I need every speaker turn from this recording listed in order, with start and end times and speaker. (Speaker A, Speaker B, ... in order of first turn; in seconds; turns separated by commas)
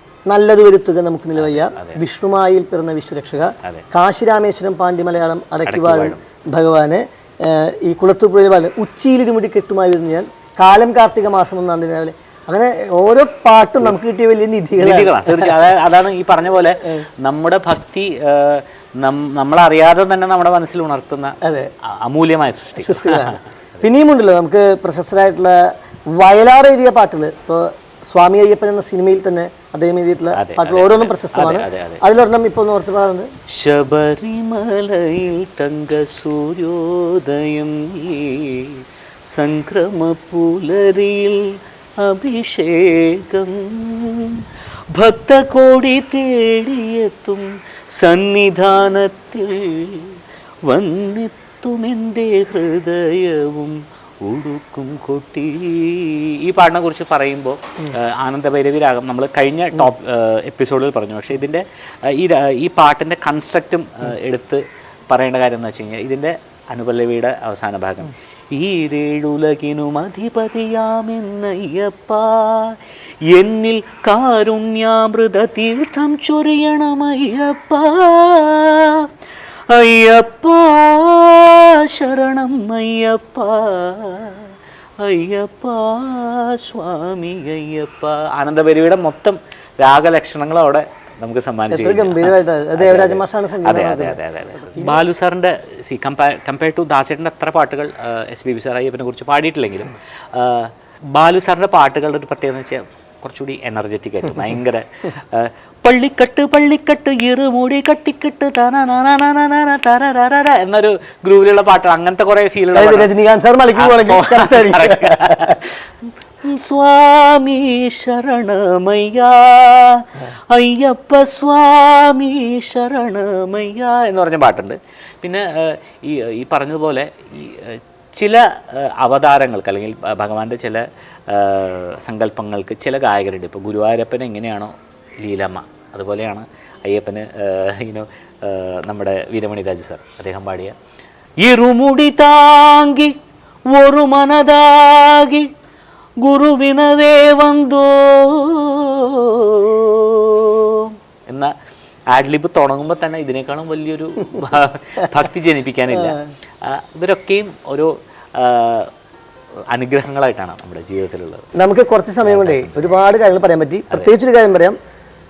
Speaker A: 0.3-15.6, Speaker B: 1.4-2.0, Speaker B: 5.7-6.2, Speaker B: 14.8-21.4, Speaker A: 21.4-21.7, Speaker B: 21.9-23.9, Speaker A: 22.8-25.6, Speaker A: 26.1-33.3, Speaker B: 30.3-32.0, Speaker B: 33.5-79.1, Speaker B: 79.7-84.5, Speaker B: 85.0-113.1, Speaker A: 91.7-95.0, Speaker A: 112.7-115.6, Speaker B: 113.7-115.8, Speaker B: 116.4-140.7, Speaker B: 141.4-143.1, Speaker B: 143.7-145.5, Speaker B: 146.2-151.5, Speaker B: 152.1-158.9, Speaker A: 155.9-156.2, Speaker B: 159.7-161.4, Speaker A: 161.6-164.8, Speaker B: 162.2-162.9